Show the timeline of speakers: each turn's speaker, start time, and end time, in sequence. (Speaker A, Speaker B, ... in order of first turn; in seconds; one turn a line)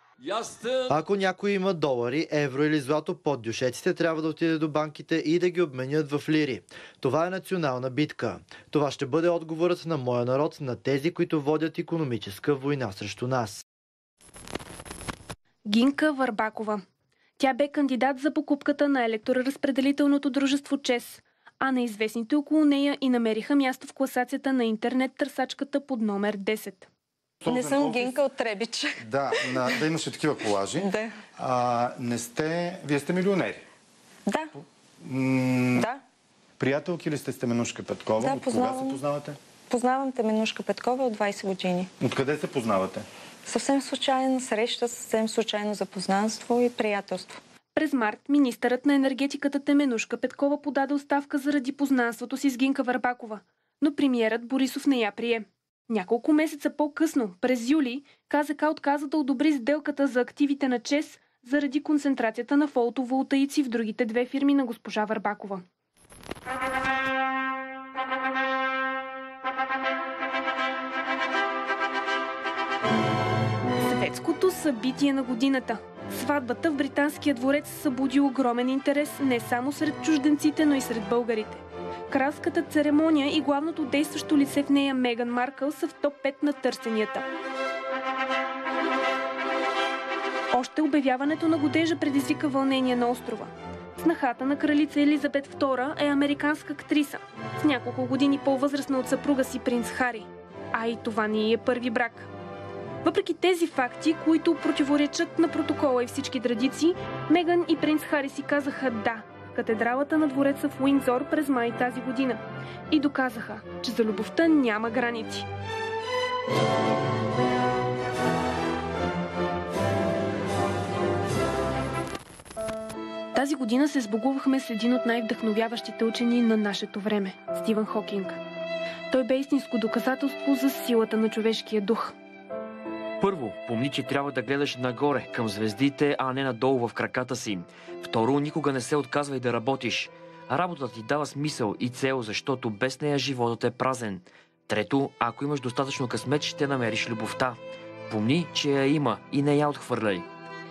Speaker A: 0.9-13.6
Speaker B: 15.7-16.8
Speaker B: 17.4-26.9
Speaker C: 27.4-28.1
Speaker D: 27.5-29.8
Speaker C: 29.0-33.6
Speaker D: 30.8-31.2
Speaker D: 34.3-34.5
Speaker C: 35.0-35.9
Speaker D: 35.8-36.0
Speaker C: 36.6-39.4
Speaker D: 38.2-39.0
Speaker D: 39.7-41.9
Speaker C: 42.0-43.0
Speaker D: 43.5-47.4
Speaker B: 47.8-65.6
Speaker B: 73.8-87.3
Speaker B: 90.5-102.3
Speaker B: 103.0-115.5
Speaker B: 123.3-128.4
Speaker B: 129.1-132.2
Speaker E: 133.2-150.3